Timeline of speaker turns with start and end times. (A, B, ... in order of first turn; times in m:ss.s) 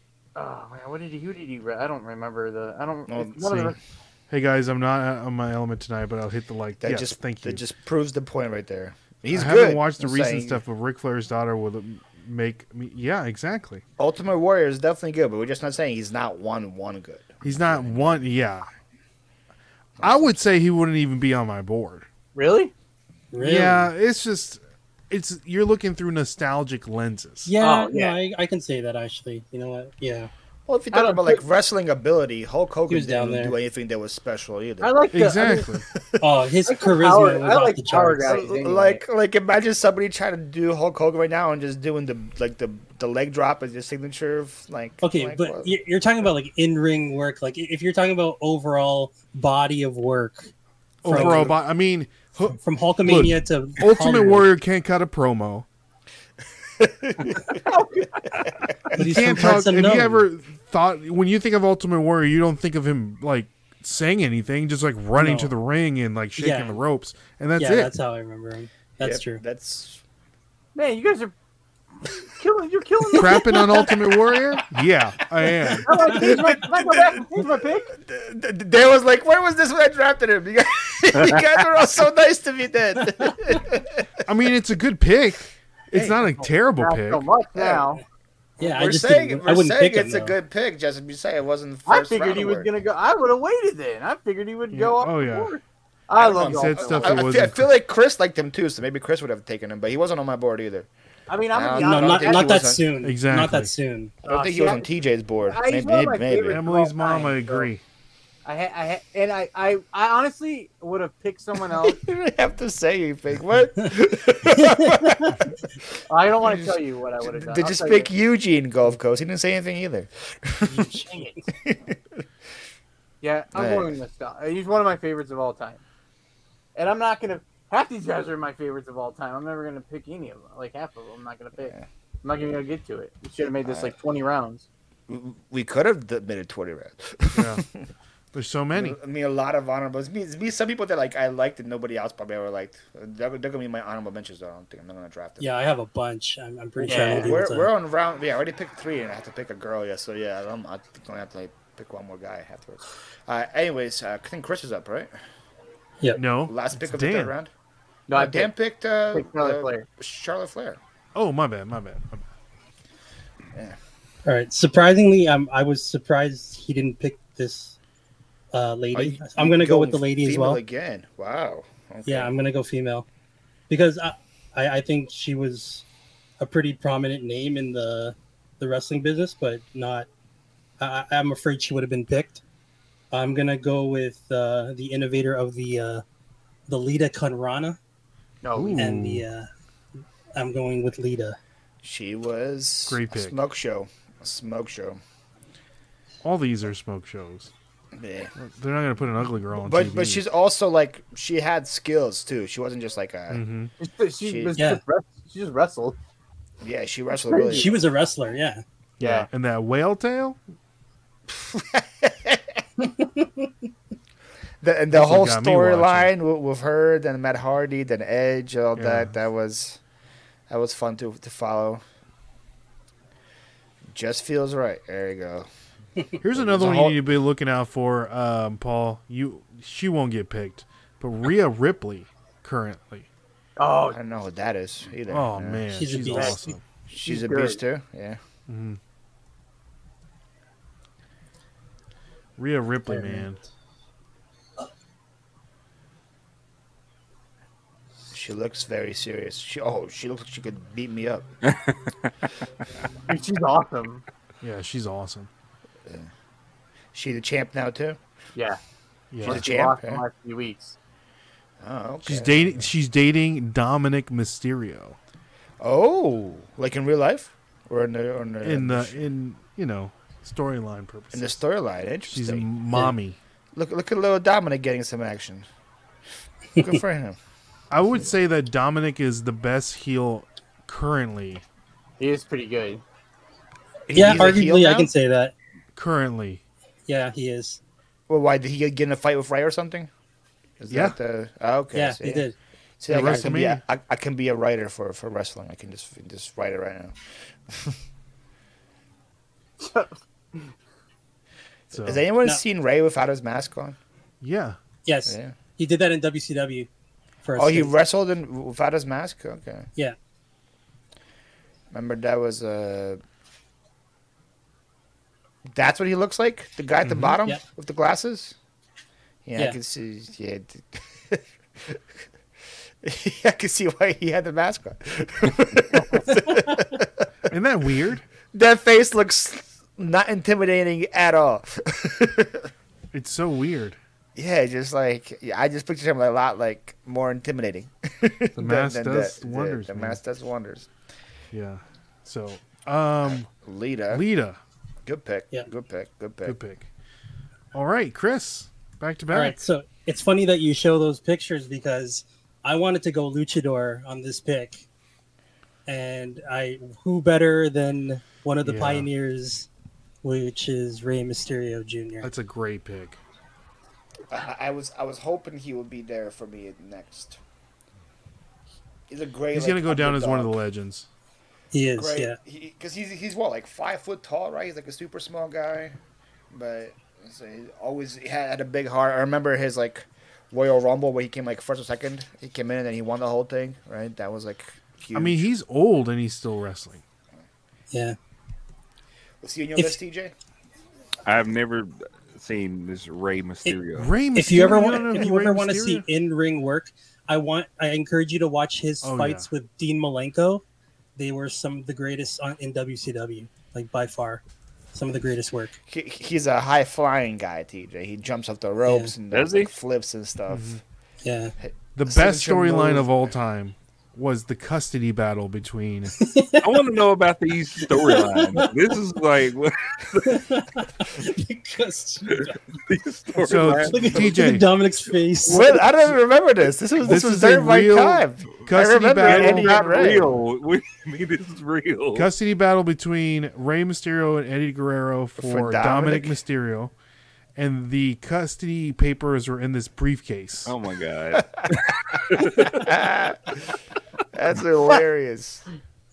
0:00.4-0:03.8 A
0:03.1-0:03.7 B
0:03.5-0:03.7 C
0:04.3-0:07.6 C
0:06.8-0:10.6 B
0:09.3-0:13.8 C
0:14.0-0:18.3 B
0:17.4-0:18.7 C
0:20.0-0:20.5 B
0:20.0-0:22.1 C
0:22.4-0:22.7 A
0:23.3-0:23.9 D
0:23.4-0:27.5 C
0:27.5-0:30.3 D
0:27.6-0:28.2 A
0:30.7-0:35.0 B
0:30.9-0:31.4 A
0:32.9-0:33.6 D
0:34.8-0:35.7 A
0:35.1-0:35.8 C
0:36.2-0:38.4 D
0:36.7-0:39.0 A
0:38.2-0:45.8 B
0:45.0-0:50.5 D
0:51.0-0:55.7 C
0:51.1-0:51.5 D
0:51.2-0:51.5 B
0:52.6-0:54.5 D
0:56.8-0:57.6 B
0:57.7-0:58.1 A
0:58.4-0:59.0 B
0:59.0-1:00.3 D
0:59.0-1:07.9 C
1:05.2-1:05.5 D
1:06.4-1:06.8 D
1:07.6-1:09.4 D
1:09.0-1:10.0 B
1:10.8-1:11.3 A
1:12.2-1:14.0 A
1:13.1-1:16.2 C
1:15.8-1:17.9 A
1:16.5-1:24.2 B
1:21.2-1:21.5 E
1:24.3-1:27.2 C
1:25.9-1:26.2 B
1:26.4-1:28.0 A
1:27.5-1:27.9 B
1:28.6-1:32.7 B
1:28.6-1:30.4 D
1:31.9-1:37.3 A
1:34.7-1:35.6 C
1:36.2-1:40.9 B
1:36.4-1:37.7 C
1:41.3-1:42.6 A
1:41.5-1:42.8 B
1:41.8-1:44.1 D
1:43.0-1:43.7 C
1:44.2-1:46.6 B
1:44.3-1:44.9 A
1:45.5-1:47.7 A
1:46.5-1:47.8 C
1:48.5-1:52.0 A
1:51.8-1:55.6 B
1:56.1-1:58.1 A
1:56.4-2:00.9 B
2:00.6-2:01.5 D
2:01.1-2:01.4 A
2:01.6-2:02.2 B
2:03.2-2:05.8 A
2:03.6-2:03.9 B
2:06.8-2:14.7 A
2:11.6-2:11.8 B
2:13.6-2:13.9 B
2:15.1-2:17.7 B
2:17.3-2:17.6 C
2:18.3-2:19.0 C
2:18.7-2:25.5 B
2:25.4-2:27.7 D
2:26.8-2:27.3 A
2:26.9-2:35.1 B
2:36.2-2:37.3 C
2:36.5-2:37.5 B
2:38.1-2:38.5 A
2:38.1-2:40.8 B
2:39.1-2:39.9 A
2:41.2-2:42.2 C
2:44.3-2:47.8 D
2:48.5-2:50.6 D
2:48.9-2:52.3 B
2:52.1-2:53.0 D
2:53.7-2:55.8 D
2:56.4-3:00.1 D
3:00.8-3:02.4 D
3:03.1-3:06.0 D
3:06.7-3:07.8 D
3:08.4-3:08.8 A
3:08.6-3:09.3 C
3:08.8-3:09.5 D
3:10.4-3:11.4 D
3:11.8-3:15.0 B
3:12.9-3:13.4 C
3:16.2-3:17.5 C
3:17.9-3:18.3 B
3:18.4-3:20.2 C
3:19.6-3:23.4 B
3:23.3-3:23.7 C
3:23.8-3:26.0 A
3:24.2-3:24.6 B
3:26.6-3:27.8 B
3:27.3-3:28.6 D
3:27.3-3:27.7 A
3:29.0-3:30.4 C
3:29.0-3:29.3 A
3:31.3-3:32.6 B
3:32.8-3:33.5 D
3:34.6-3:39.8 B
3:34.9-3:36.1 C
3:38.8-3:39.1 C
3:40.5-3:41.8 B
3:43.9-3:45.5 B
3:46.2-3:53.1 C
3:46.3-3:47.1 B
3:53.6-3:54.0 A
3:53.9-3:55.6 B
3:55.1-3:56.6 C
3:55.7-3:56.4 D
3:56.1-3:57.6 A
3:56.9-3:58.2 B
3:58.5-3:58.8 C
4:02.4-4:03.4 C
4:02.9-4:03.2 D
4:08.1-4:11.3 B
4:11.5-4:12.1 E
4:13.1-4:14.0 A
4:14.4-4:15.3 C
4:15.8-4:16.1 B
4:16.9-4:18.0 B
4:18.4-4:18.6 A
4:19.1-4:19.4 C
4:19.2-4:20.8 A
4:19.2-4:20.0 B
4:21.6-4:22.7 B
4:22.0-4:25.0 C
4:25.6-4:29.0 B
4:28.4-4:31.4 C
4:31.1-4:32.5 B
4:32.1-4:33.2 C
4:33.5-4:35.5 B
4:36.6-4:37.2 B
4:37.7-4:41.4 C
4:42.0-4:42.8 A
4:43.9-4:44.9 B
4:43.9-4:45.3 D
4:45.8-4:46.4 C
4:46.9-4:47.6 D
4:48.1-4:49.9 B
4:50.6-4:52.3 B
4:50.7-4:51.0 C
4:51.7-4:52.4 D
4:52.8-4:57.8 B
4:52.9-4:53.6 C
4:59.6-5:00.5 A
5:01.7-5:02.1 C
5:01.7-5:03.8 B
5:04.2-5:04.6 C
5:04.8-5:06.7 D
5:05.1-5:05.3 B
5:07.2-5:07.7 D
5:07.4-5:09.7 B
5:11.7-5:13.0 B
5:15.5-5:18.4 B
5:16.8-5:17.1 C
5:19.2-5:21.8 B
5:22.8-5:27.1 B
5:27.3-5:28.0 C
5:28.3-5:32.5 B
5:32.9-5:33.8 C
5:34.2-5:40.7 B
5:38.4-5:40.0 C
5:41.3-5:43.3 C
5:43.0-5:44.0 B
5:43.9-5:44.4 C
5:44.8-5:46.4 B
5:46.2-5:46.7 C
5:47.5-5:49.4 C
5:49.1-5:54.6 D
5:55.7-5:59.5 D
5:58.4-5:58.9 C
6:00.0-6:02.1 D
6:02.0-6:03.0 C
6:04.1-6:07.2 B
6:08.9-6:10.4 B
6:09.3-6:10.9 C
6:11.5-6:12.2 D
6:11.8-6:15.8 B
6:16.3-6:25.3 B
6:24.9-6:26.8 C
6:27.7-6:28.0 D
6:29.2-6:30.1 B
6:31.0-6:33.9 E
6:33.8-6:35.9 C
6:34.1-6:40.4 D
6:38.8-6:39.3 C
6:41.0-6:44.2 D
6:44.7-6:45.6 D
6:45.7-6:50.6 B
6:48.7-6:48.9 D
6:49.1-6:49.5 E
6:50.3-6:50.6 C
6:51.0-6:51.4 D
6:51.4-6:53.0 B
6:51.8-6:55.9 C
6:56.0-6:56.5 D
6:56.4-7:00.2 E
6:57.7-6:58.5 D
7:00.1-7:02.3 D
7:02.6-7:04.1 E
7:03.2-7:04.5 C
7:03.3-7:05.6 D
7:05.3-7:10.1 B
7:06.9-7:09.6 C
7:09.0-7:12.1 E
7:11.9-7:16.7 C
7:15.2-7:16.2 B
7:17.4-7:20.5 C
7:20.5-7:22.8 E
7:22.2-7:23.5 B
7:24.1-7:25.4 B